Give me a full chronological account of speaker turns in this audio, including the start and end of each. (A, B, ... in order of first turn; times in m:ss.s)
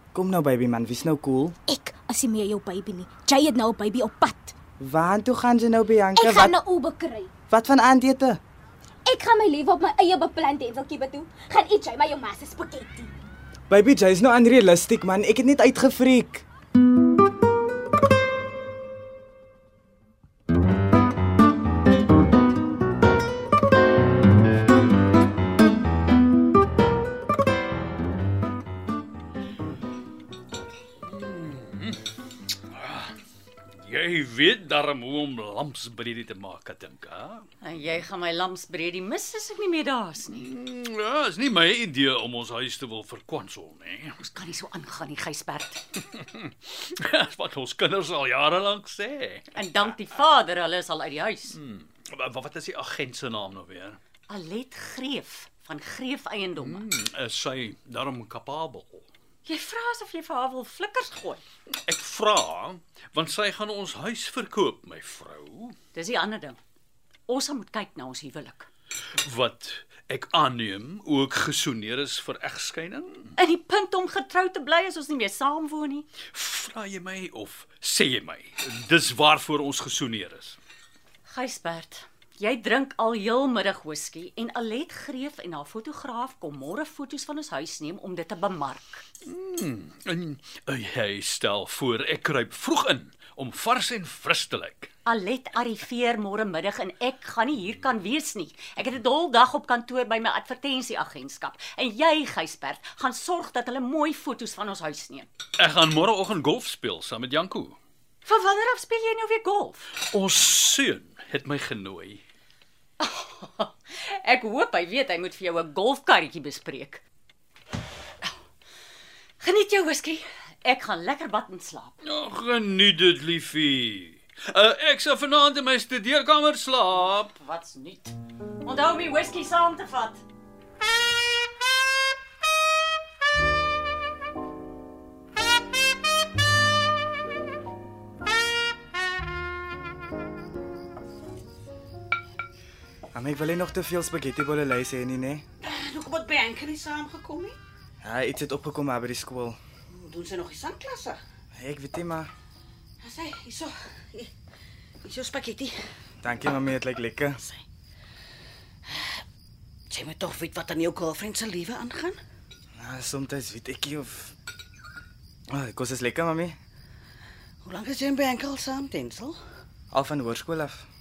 0:00.1-0:01.6 A
0:01.7-0:04.5 B
0:04.8-0:06.6 A
0:06.2-0:07.3 B
0:07.5-0:08.4 A
0:09.0-0:13.1 B
0:13.7-0:16.4 A
0:31.0-0:32.0 C
0:32.7-0:33.2 C
0:33.8-0:37.5 C
0:37.6-0:40.5 D
0:40.3-0:44.2 C
0:44.2-0:45.8 D
0:46.1-0:50.0 C
0:49.5-0:51.6 D
0:51.5-0:54.0 C
0:54.3-0:56.8 D
0:56.6-0:59.0 C
0:59.4-1:01.4 D
1:01.8-1:05.8 C
1:05.9-1:06.6 D
1:07.3-1:08.7 D
1:09.2-1:13.3 C
1:13.4-1:16.1 D
1:16.3-1:20.6 C
1:21.3-1:29.0 D
1:29.2-1:34.9 C
1:35.0-1:45.3 D
1:45.6-1:47.8 C
1:48.2-1:49.9 D
1:50.0-1:52.2 C
1:53.0-1:57.0 D
1:59.4-2:02.0 D
2:02.0-2:07.3 C
2:07.3-2:10.2 D
2:23.1-2:25.4 A
2:25.6-2:27.6 E
2:28.0-2:29.6 A
2:29.9-2:31.2 E
2:31.5-2:32.3 A
2:33.0-2:34.3 E
2:35.0-2:35.8 E
2:36.2-2:37.4 A
2:38.9-2:39.2 E
2:39.9-2:42.2 E
2:42.8-2:44.3 A
2:45.5-2:46.5 A
2:47.6-2:49.3 E
2:49.9-2:50.8 A